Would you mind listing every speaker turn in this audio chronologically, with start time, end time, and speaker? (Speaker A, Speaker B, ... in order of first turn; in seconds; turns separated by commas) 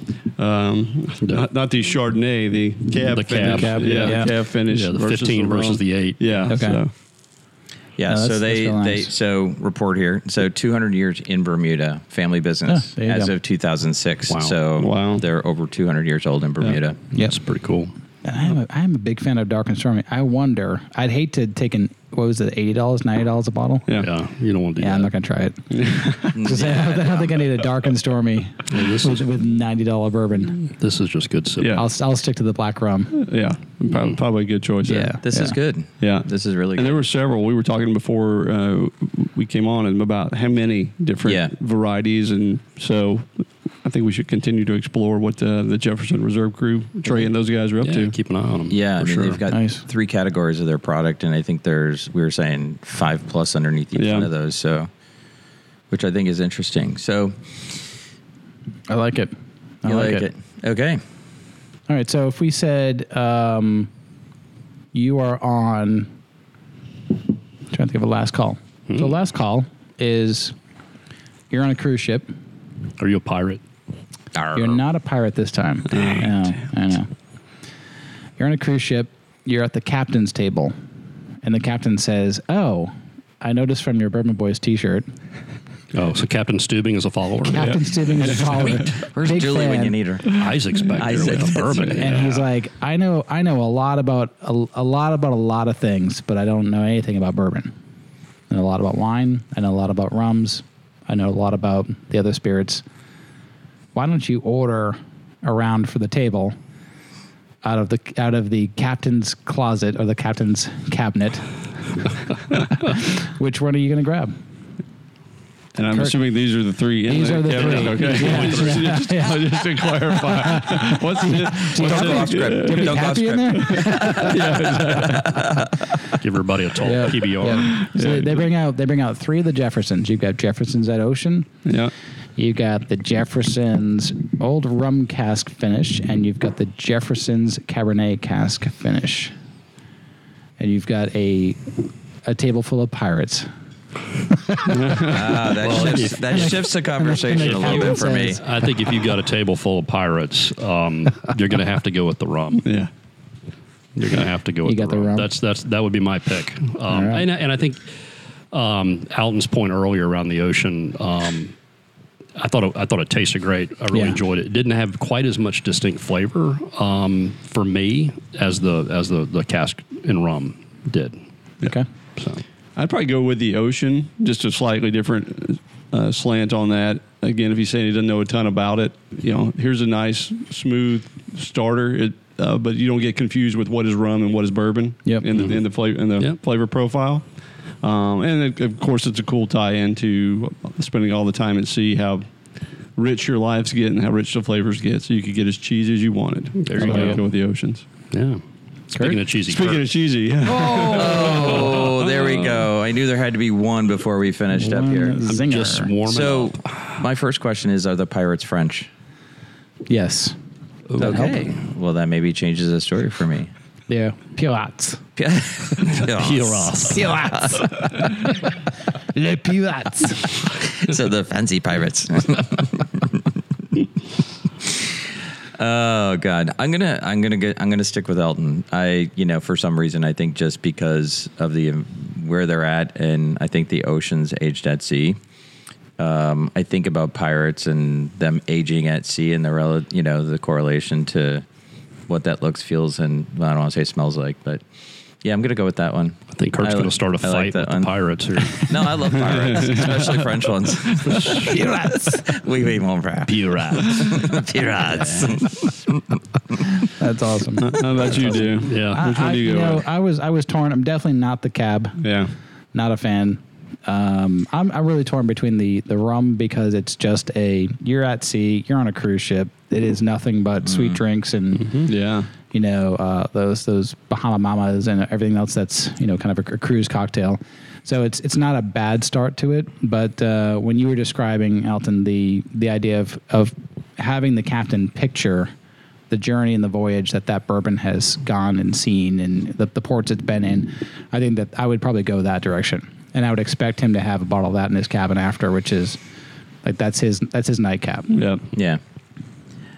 Speaker A: 0.2-6.9, Speaker B: 3.1-6.6, Speaker C: 3.4-4.3, Speaker C: 6.5-6.8, Speaker D: 8.0-17.0, Speaker C: 8.1-9.1, Speaker C: 12.7-13.3, Speaker B: 14.3-14.6, Speaker A: 14.8-15.2, Speaker B: 16.6-17.9, Speaker C: 18.2-23.9, Speaker B: 24.0-25.1, Speaker C: 24.8-30.6, Speaker A: 25.7-26.2, Speaker D: 26.3-27.4, Speaker B: 28.7-29.2, Speaker B: 30.6-31.8, Speaker A: 31.6-31.8, Speaker C: 31.7-33.1, Speaker A: 33.1-35.1, Speaker C: 34.8-35.6, Speaker D: 34.9-37.0, Speaker A: 36.0-48.1, Speaker D: 41.2-41.5, Speaker B: 47.8-49.4, Speaker D: 48.7-54.9, Speaker C: 49.5-49.8, Speaker A: 53.9-54.3, Speaker D: 55.9-57.5, Speaker C: 58.9-60.3, Speaker D: 59.8-61.0, Speaker C: 61.9-63.9, Speaker C: 64.9-66.1, Speaker C: 67.7-70.5, Speaker C: 71.5-72.3, Speaker B: 73.0-73.6, Speaker D: 74.3-74.8, Speaker C: 74.5-77.1, Speaker A: 75.9-76.5, Speaker C: 78.4-80.7, Speaker C: 81.4-85.1, Speaker B: 85.9-87.8, Speaker C: 87.5-90.0, Speaker A: 87.5-88.8, Speaker D: 89.0-90.4, Speaker B: 90.3-92.4, Speaker A: 91.0-91.9, Speaker D: 91.0-92.3, Speaker C: 92.0-97.7, Speaker C: 98.5-102.8, Speaker C: 103.9-106.5, Speaker C: 107.6-111.5, Speaker C: 112.5-114.3, Speaker A: 115.8-123.1, Speaker C: 117.1-125.0, Speaker B: 117.5-118.9, Speaker D: 121.7-125.9, Speaker A: 123.6-125.4, Speaker B: 126.1-127.8, Speaker C: 126.8-131.5, Speaker A: 127.6-128.5, Speaker A: 131.6-131.9, Speaker C: 132.3-139.3, Speaker C: 140.6-141.7, Speaker C: 142.2-143.5, Speaker C: 144.3-145.2, Speaker A: 144.7-145.3, Speaker D: 145.0-148.4, Speaker B: 145.4-146.6, Speaker C: 146.3-148.4, Speaker B: 147.4-152.7, Speaker A: 152.6-152.9, Speaker B: 153.9-157.9, Speaker C: 154.6-155.3, Speaker C: 156.9-157.2, Speaker B: 158.5-161.5, Speaker B: 162.4-171.2, Speaker C: 163.9-164.2, Speaker B: 172.2-172.4, Speaker A: 172.8-187.2, Speaker B: 185.3-185.6, Speaker A: 187.8-192.3, Speaker A: 192.9-197.8, Speaker B: 196.6-197.2, Speaker C: 196.8-197.2, Speaker B: 198.1-199.8, Speaker C: 198.9-199.2, Speaker A: 199.5-202.0, Speaker B: 200.4-202.5, Speaker D: 200.9-205.3, Speaker C: 204.5-205.9, Speaker B: 205.3-207.0, Speaker D: 206.0-208.9, Speaker C: 209.9-210.3, Speaker B: 210.9-211.5, Speaker C: 211.0-211.4, Speaker D: 211.0-213.5, Speaker C: 213.9-215.0, Speaker D: 215.2-218.3, Speaker B: 216.0-217.1, Speaker C: 216.9-220.3, Speaker D: 220.5-223.2, Speaker D: 224.6-224.9, Speaker D: 225.6-235.2, Speaker D: 236.0-241.4, Speaker D: 242.1-244.6, Speaker D: 245.2-247.9, Speaker B: 246.3-249.2, Speaker D: 248.6-256.2, Speaker A: 249.2-250.5, Speaker B: 251.0-251.5, Speaker C: 251.3-252.4, Speaker B: 253.2-255.5, Speaker C: 256.8-262.0, Speaker A: 257.6-259.9, Speaker B: 258.1-259.0, Speaker A: 262.0-262.3, Speaker C: 262.7-271.8, Speaker D: 270.6-271.0, Speaker A: 271.8-272.3, Speaker C: 272.5-285.5, Speaker C: 286.1-296.0, Speaker C: 296.6-298.2, Speaker A: 298.1-298.4, Speaker D: 298.5-298.8